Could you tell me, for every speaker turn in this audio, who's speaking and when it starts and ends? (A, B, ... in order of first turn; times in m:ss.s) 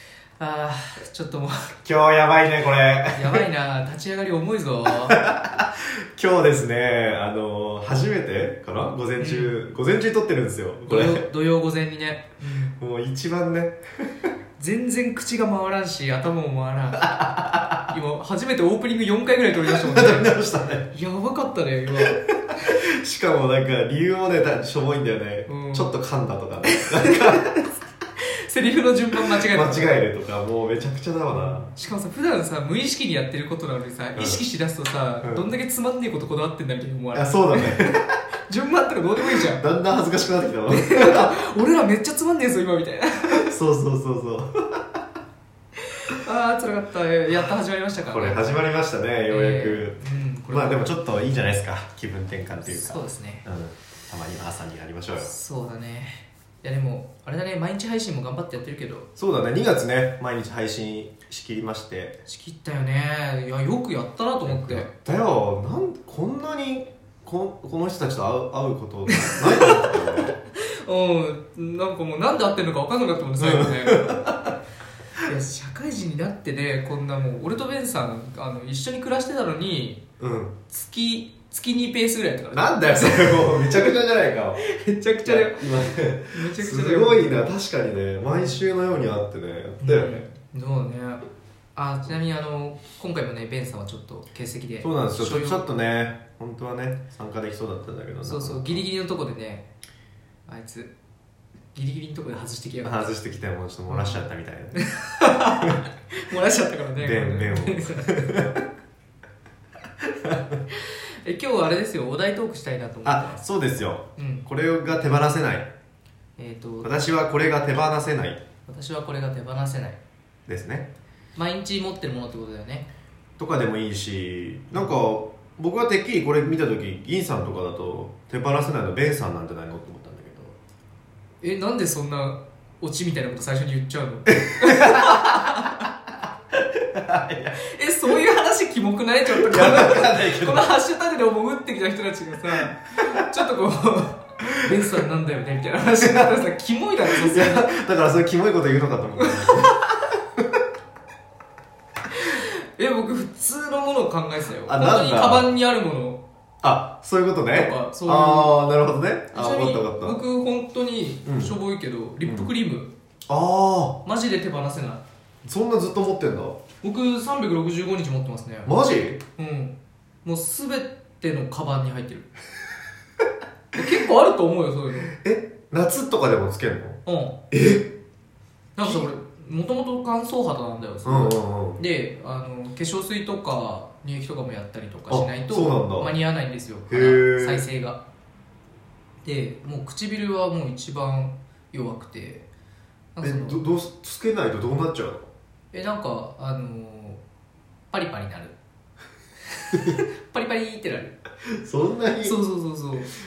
0:00.4-0:01.7 A
0:01.8-0:03.4 B
0:03.1-0:05.2 A
0:04.9-0:11.3 B
0:09.2-0:09.6 A
0:10.9-0:12.7 A
0:12.8-0:13.8 B
0:14.6-0:22.7 A
0:17.1-0:17.6 B
0:19.7-0:20.9 B
0:22.1-0:27.6 B
0:25.5-0:25.9 A
0:26.7-0:27.6 A
0:28.2-0:30.0 A
0:29.2-0:31.7 B
0:31.3-0:38.0 A
0:34.2-0:34.4 B
0:35.2-0:35.5 B
0:37.1-0:38.2 B
0:38.5-0:39.6 A
0:39.2-0:41.4 B
0:40.7-0:43.5 A
0:43.3-0:44.9 B
0:45.9-0:48.5 A
0:48.1-0:55.3 B
0:49.3-0:50.9 A
0:52.6-0:53.5 A
0:55.2-0:59.1 A
0:59.2-1:02.2 B
1:02.3-1:04.9 A
1:04.5-1:10.4 B
1:09.1-1:14.2 A
1:13.4-1:14.5 B
1:15.2-1:20.0 A
1:20.2-1:20.6 B
1:20.7-1:23.9 A
1:22.5-1:24.7 B
1:24.6-1:27.4 A
1:25.2-1:30.2 B
1:29.8-1:31.2 A
1:31.8-1:35.7 A
1:34.8-1:38.8 B
1:38.2-1:39.7 A
1:40.5-1:40.9 A
1:41.7-1:43.1 A
1:42.8-1:44.8 B
1:43.9-1:44.2 A
1:44.8-1:48.2 A
1:47.0-1:48.6 B
1:50.0-1:50.6 B
1:50.7-1:53.4 A
1:53.0-1:55.7 B
1:54.2-1:54.4 A
1:56.4-1:56.9 A
1:56.8-1:58.4 B
1:58.7-2:00.0 A
2:00.5-2:00.9 B
2:01.4-2:02.9 A
2:03.4-2:10.6 B
2:11.4-2:15.9 A
2:14.4-2:15.9 B
2:16.6-2:17.6 B
2:17.6-2:27.7 A
2:19.3-2:20.7 B
2:26.1-2:26.3 B
2:27.1-2:30.6 B
2:29.2-2:29.7 A
2:32.1-2:36.2 A
2:34.6-2:35.5 B
2:36.6-2:40.2 B
2:37.5-2:38.6 A
2:39.3-2:42.9 A
2:41.3-2:41.6 B
2:42.2-2:42.5 B
2:43.3-2:44.0 B
2:44.0-2:45.0 A
2:45.4-2:46.6 B
2:46.8-2:48.7 A
2:48.6-2:49.2 B
2:49.4-2:52.3 A
2:53.7-2:55.1 A
2:55.1-2:57.0 B
2:57.0-2:57.4 A
2:57.5-2:57.9 B
2:58.8-3:08.0 A
2:58.8-2:59.1 B
3:01.0-3:01.8 B
3:05.1-3:06.1 B
3:06.9-3:07.6 B
3:09.2-3:12.5 A
3:13.2-3:13.6 A
3:13.2-3:15.3 B
3:15.7-3:17.2 A
3:17.9-3:18.6 A
3:19.5-3:21.2 A
3:21.5-3:22.4 B
3:22.2-3:23.1 A